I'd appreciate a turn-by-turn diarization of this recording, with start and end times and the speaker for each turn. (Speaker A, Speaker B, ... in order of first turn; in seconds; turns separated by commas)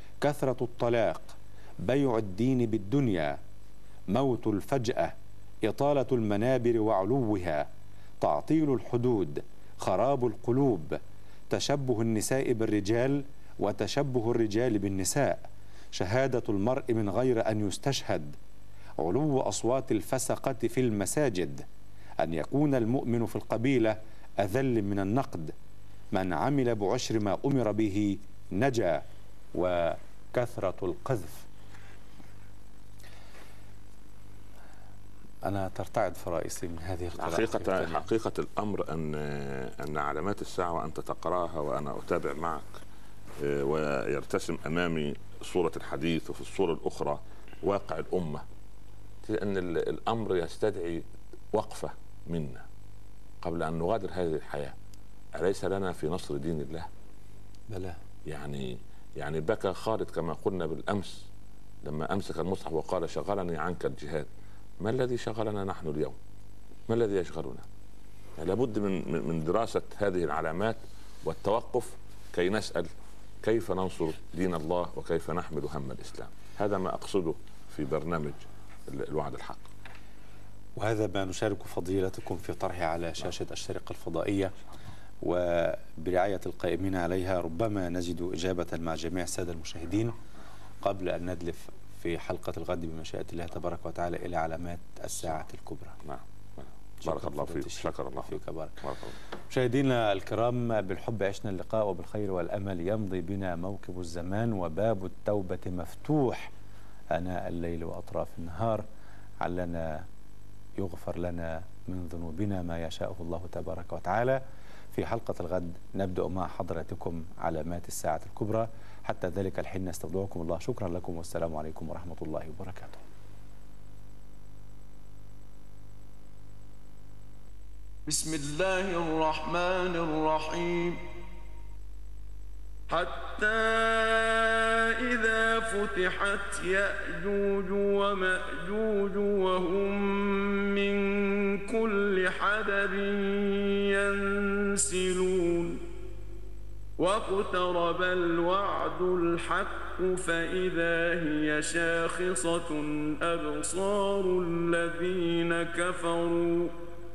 Speaker A: 0.2-3.4, Speaker A: 4.1-7.7, Speaker A: 8.2-11.0, Speaker A: 11.5-15.4, Speaker A: 15.9-18.4, Speaker A: 19.0-21.6, Speaker A: 22.2-25.5, Speaker A: 26.1-31.4, Speaker A: 35.4-38.0, Speaker B: 37.1-42.7, Speaker B: 43.4-48.4, Speaker B: 49.2-52.6, Speaker B: 53.4-54.8, Speaker B: 55.3-56.9, Speaker A: 57.7-58.0, Speaker B: 58.2-61.3, Speaker B: 61.8-66.2, Speaker B: 66.9-67.7, Speaker B: 68.4-72.9, Speaker B: 73.4-79.7, Speaker A: 80.8-84.5, Speaker A: 85.2-90.2, Speaker A: 90.8-96.0, Speaker B: 96.0-99.2, Speaker A: 97.0-98.8, Speaker A: 99.5-106.5, Speaker A: 107.1-108.8, Speaker A: 109.4-110.0, Speaker A: 110.8-114.4, Speaker A: 114.9-123.0, Speaker C: 128.1-131.0, Speaker C: 132.9-145.8, Speaker C: 147.0-156.7